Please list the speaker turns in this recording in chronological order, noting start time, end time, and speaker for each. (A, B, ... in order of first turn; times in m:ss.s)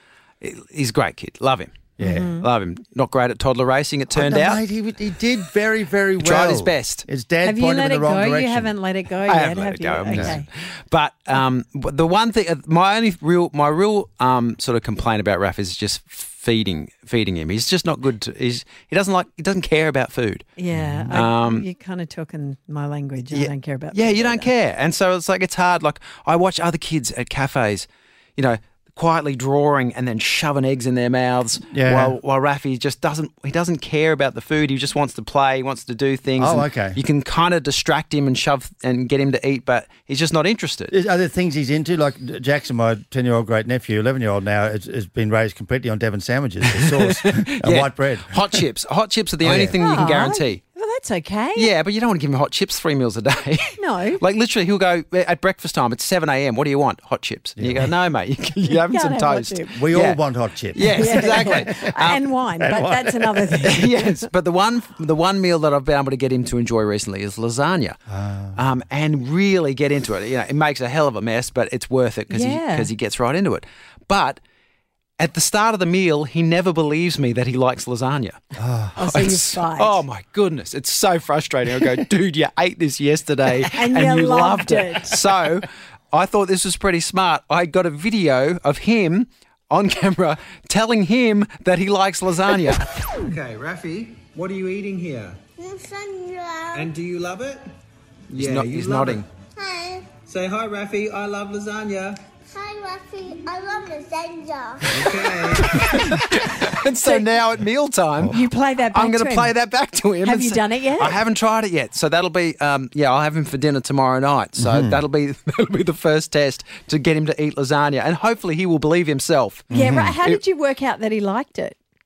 0:00.4-0:04.6 A
0:02.0-0:02.3 B
0:02.0-0:02.4 C
0:04.1-0:08.7 B
0:06.2-0:07.0 A
0:07.4-0:10.4 C
0:09.2-0:20.4 A
0:10.1-0:10.4 B
0:20.6-0:24.5 C
0:20.7-0:21.2 B
0:21.1-0:21.6 A
0:23.3-0:40.9 A
0:31.7-0:32.2 B
0:36.4-0:37.0 B
0:40.9-0:48.4 B
0:46.7-0:50.6 A
0:49.4-0:49.7 B
0:49.8-0:51.7 C
0:51.5-1:00.2 A
0:53.8-0:54.2 C
0:57.6-0:57.9 B
0:58.7-0:59.7 C
0:59.8-1:01.8 B
1:00.7-1:02.2 A
1:00.9-1:04.2 C
1:02.6-1:03.6 B
1:03.6-1:08.0 A
1:08.1-1:08.6 B
1:08.5-1:14.4 A
1:12.3-1:12.9 C
1:15.2-1:18.4 A
1:18.6-1:19.0 B
1:19.0-1:20.0 C
1:19.0-1:32.8 A
1:23.7-1:25.2 C
1:33.2-1:35.4 D
1:35.6-1:36.9 E
1:36.7-1:37.6 D
1:38.3-1:39.2 A
1:38.3-1:39.2 D
1:39.6-1:40.1 E
1:40.3-1:42.2 D
1:42.5-1:45.3 E
1:44.9-1:45.8 D
1:45.7-1:59.7 A
1:46.3-1:47.3 C
1:48.3-1:49.5 C
1:50.2-1:51.2 C
1:54.6-1:55.0 B
1:59.7-2:00.1 B
1:59.7-2:01.8 C